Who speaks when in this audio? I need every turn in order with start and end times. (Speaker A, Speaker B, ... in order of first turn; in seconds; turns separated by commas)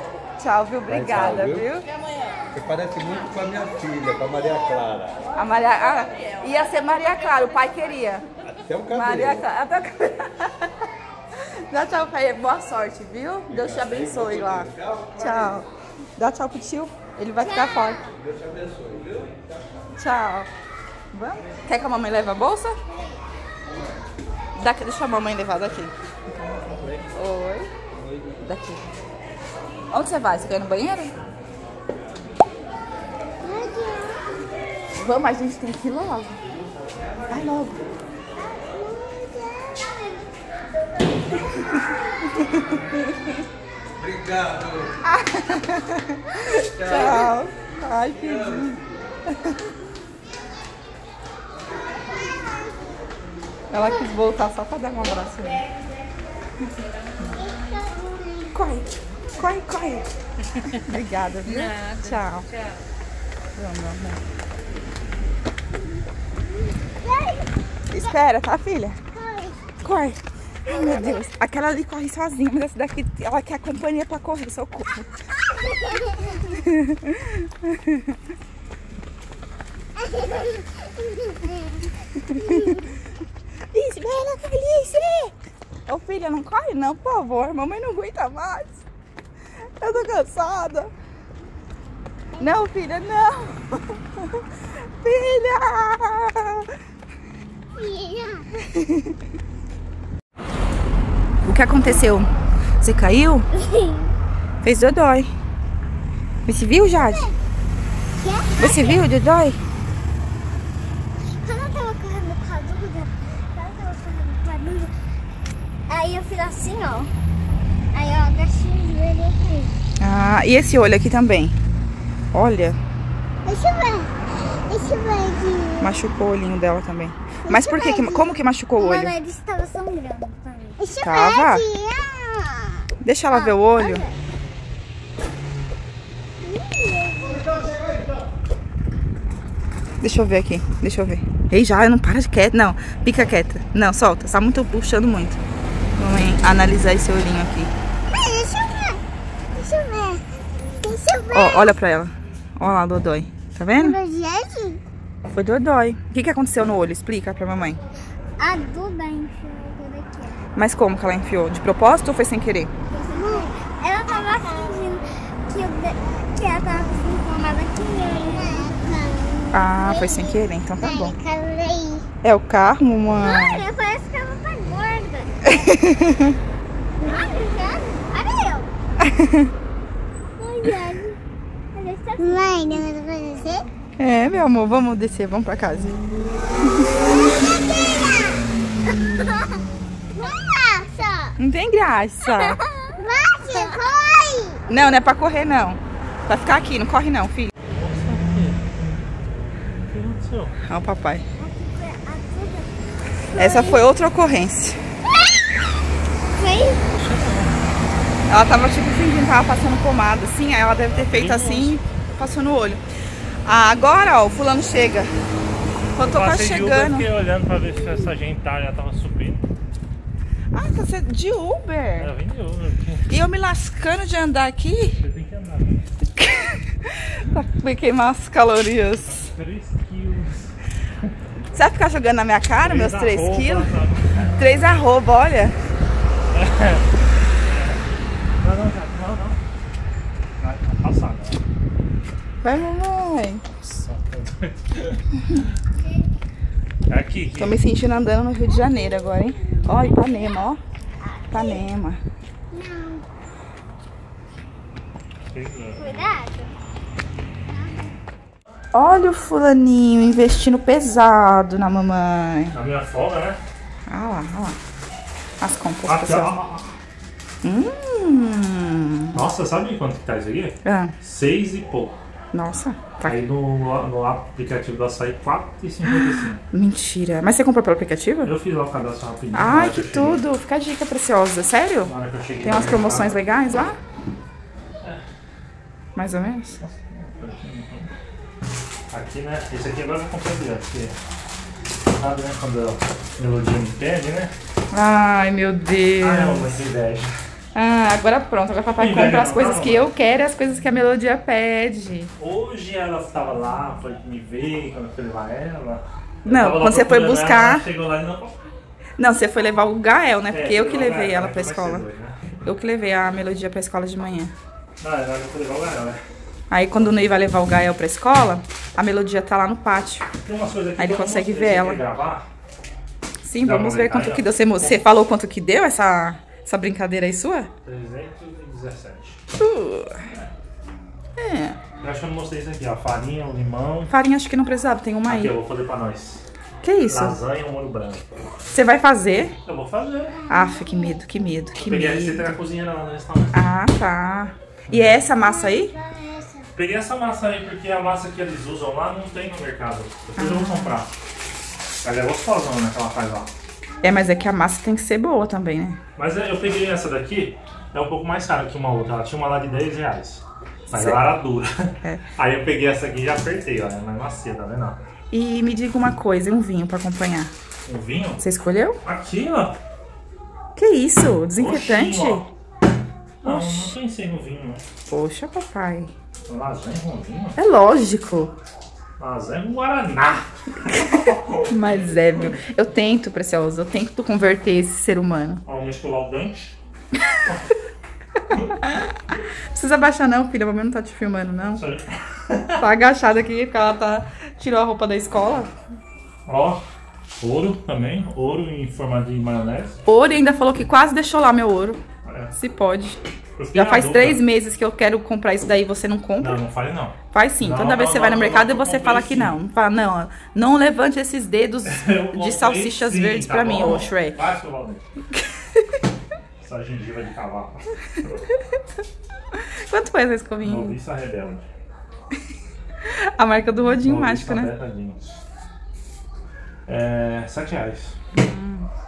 Speaker A: 0.4-1.9, Speaker B: 0.9-1.7, Speaker B: 2.5-5.2, Speaker A: 5.3-8.2, Speaker B: 8.5-9.5, Speaker A: 8.9-10.7, Speaker A: 11.4-15.7, Speaker B: 13.5-15.6, Speaker A: 16.2-18.0, Speaker C: 17.4-18.2, Speaker B: 18.2-19.6, Speaker A: 19.9-20.5, Speaker A: 21.1-22.8, Speaker A: 24.6-27.7, Speaker A: 28.4-28.9, Speaker A: 29.9-31.1, Speaker C: 33.4-34.3, Speaker A: 35.0-36.4, Speaker A: 37.3-37.9, Speaker C: 38.4-40.2, Speaker C: 41.6-41.9, Speaker A: 42.4-43.4, Speaker B: 44.0-45.0, Speaker A: 45.0-49.5, Speaker B: 46.8-47.3, Speaker B: 48.2-48.9, Speaker C: 51.9-52.7, Speaker A: 53.7-55.6, Speaker C: 57.3-58.4, Speaker A: 58.5-60.1, Speaker A: 60.6-62.5, Speaker A: 63.5-64.2, Speaker C: 67.0-68.2, Speaker A: 67.9-69.0, Speaker C: 69.1-69.8, Speaker A: 69.8-75.1, Speaker C: 70.7-71.2, Speaker C: 75.5-76.6, Speaker A: 76.6-78.1, Speaker C: 80.0-80.6, Speaker C: 81.2-81.6, Speaker A: 82.2-82.8, Speaker C: 82.4-82.8, Speaker A: 83.7-85.3, Speaker A: 85.9-88.8, Speaker A: 89.8-90.9, Speaker A: 92.4-94.0, Speaker A: 95.0-96.6, Speaker C: 97.7-98.5, Speaker A: 101.4-103.5, Speaker C: 103.5-104.1, Speaker A: 104.6-105.3, Speaker A: 106.5-107.3, Speaker C: 106.9-107.3, Speaker C: 108.2-109.0, Speaker A: 108.6-109.6, Speaker C: 111.4-114.9, Speaker C: 115.9-117.1, Speaker C: 117.9-119.7, Speaker A: 120.0-121.6, Speaker A: 122.3-122.8, Speaker C: 123.4-124.1, Speaker C: 124.7-126.0, Speaker A: 125.8-129.1, Speaker C: 127.5-132.7, Speaker A: 131.0-131.6, Speaker A: 133.0-134.0, Speaker C: 133.3-134.1, Speaker C: 136.4-137.7, Speaker A: 140.0-145.4, Speaker A: 146.0-147.7, Speaker C: 148.1-149.0, Speaker C: 149.5-150.2, Speaker C: 150.8-151.7, Speaker A: 151.3-154.0, Speaker C: 153.7-154.8, Speaker A: 155.3-157.8, Speaker C: 158.4-160.4, Speaker A: 160.5-162.7, Speaker C: 163.0-172.1, Speaker A: 169.5-171.2, Speaker A: 172.2-173.6, Speaker C: 173.1-175.7, Speaker A: 175.4-176.3, Speaker C: 177.0-178.7, Speaker A: 179.0-179.5, Speaker C: 180.4-181.2, Speaker C: 181.7-183.7, Speaker A: 184.0-186.0, Speaker A: 186.7-186.9, Speaker C: 189.0-189.6, Speaker C: 190.1-191.3, Speaker A: 191.4-192.6, Speaker C: 192.2-194.7, Speaker A: 193.5-193.8, Speaker A: 194.7-197.5, Speaker D: 197.6-200.6, Speaker A: 200.6-201.2, Speaker C: 201.4-203.9, Speaker A: 203.3-204.8, Speaker C: 206.3-206.8, Speaker D: 206.9-207.9, Speaker A: 208.3-212.8, Speaker D: 210.8-211.8, Speaker A: 213.4-215.1, Speaker A: 215.9-217.1, Speaker D: 216.0-219.5, Speaker A: 220.5-222.1, Speaker D: 222.0-223.1, Speaker A: 223.1-225.0, Speaker D: 225.0-225.9, Speaker A: 226.1-229.3, Speaker D: 229.1-231.1, Speaker A: 231.5-233.8, Speaker D: 232.6-234.7, Speaker A: 234.3-235.6, Speaker D: 236.3-237.8, Speaker D: 238.4-239.4, Speaker D: 240.4-241.4, Speaker A: 242.4-243.4, Speaker D: 243.6-245.1, Speaker D: 246.9-247.6, Speaker A: 247.4-250.6, Speaker C: 248.6-250.3, Speaker C: 251.0-251.7, Speaker A: 251.3-252.0, Speaker C: 252.5-253.0, Speaker D: 255.3-256.0, Speaker C: 255.8-256.5, Speaker C: 257.5-257.9, Speaker A: 258.7-262.6, Speaker D: 262.5-263.4, Speaker A: 263.9-264.6, Speaker A: 265.4-266.4, Speaker D: 265.9-266.7, Speaker A: 267.4-269.2, Speaker D: 269.1-272.0, Speaker A: 270.6-270.9, Speaker A: 272.3-273.2, Speaker D: 273.0-276.4, Speaker A: 275.8-278.3, Speaker D: 278.2-280.2, Speaker A: 279.3-281.9, Speaker D: 281.8-283.2, Speaker A: 282.4-283.8, Speaker A: 285.9-286.6, Speaker D: 286.6-287.9, Speaker D: 288.9-290.9, Speaker D: 292.0-294.3, Speaker A: 294.7-296.6, Speaker D: 296.0-297.1, Speaker A: 297.5-302.1, Speaker D: 298.8-299.9, Speaker D: 302.2-308.4, Speaker A: 306.2-307.6, Speaker A: 309.0-311.9, Speaker D: 310.3-312.3, Speaker A: 312.4-314.3, Speaker D: 314.8-316.0, Speaker A: 316.5-320.1, Speaker D: 316.7-317.2, Speaker D: 320.2-322.3, Speaker A: 320.8-321.8, Speaker A: 323.2-327.5, Speaker D: 323.4-324.8, Speaker D: 327.6-329.2, Speaker A: 329.4-330.1, Speaker A: 331.2-331.6, Speaker D: 331.8-333.9, Speaker A: 333.9-335.3, Speaker D: 335.1-336.2, Speaker A: 336.6-337.2, Speaker D: 336.9-338.0, Speaker A: 338.5-339.4, Speaker D: 339.4-340.2, Speaker A: 340.3-342.3, Speaker D: 341.6-343.4, Speaker A: 343.3-345.7, Speaker D: 344.7-345.1, Speaker C: 345.2-346.5, Speaker D: 346.5-350.9, Speaker A: 350.2-350.7, Speaker D: 351.8-353.3, Speaker A: 353.8-355.8, Speaker D: 355.9-364.8, Speaker A: 360.7-361.0, Speaker A: 365.1-367.3, Speaker D: 367.7-368.2, Speaker A: 368.2-368.8, Speaker D: 368.8-369.6, Speaker A: 370.6-372.2, Speaker D: 371.3-372.3, Speaker A: 373.2-373.7, Speaker D: 373.2-374.6, Speaker A: 374.9-375.9, Speaker D: 376.3-377.4, Speaker A: 377.4-378.3, Speaker D: 379.0-382.4, Speaker A: 380.6-385.4, Speaker D: 385.4-386.6, Speaker A: 386.9-387.2, Speaker A: 388.6-388.9, Speaker A: 389.5-391.6, Speaker D: 391.5-392.6, Speaker A: 392.6-395.5, Speaker D: 396.2-396.6, Speaker D: 397.2-399.8, Speaker A: 399.9-403.0, Speaker D: 402.0-402.3, Speaker D: 403.4-404.2, Speaker A: 403.5-406.4, Speaker D: 406.2-409.4, Speaker A: 407.1-414.2, Speaker D: 411.6-414.8, Speaker A: 415.1-415.6, Speaker D: 416.4-418.2, Speaker A: 419.3-420.8, Speaker D: 420.4-421.5, Speaker A: 422.8-424.5, Speaker D: 423.8-425.2, Speaker D: 426.7-428.0, Speaker A: 428.1-428.7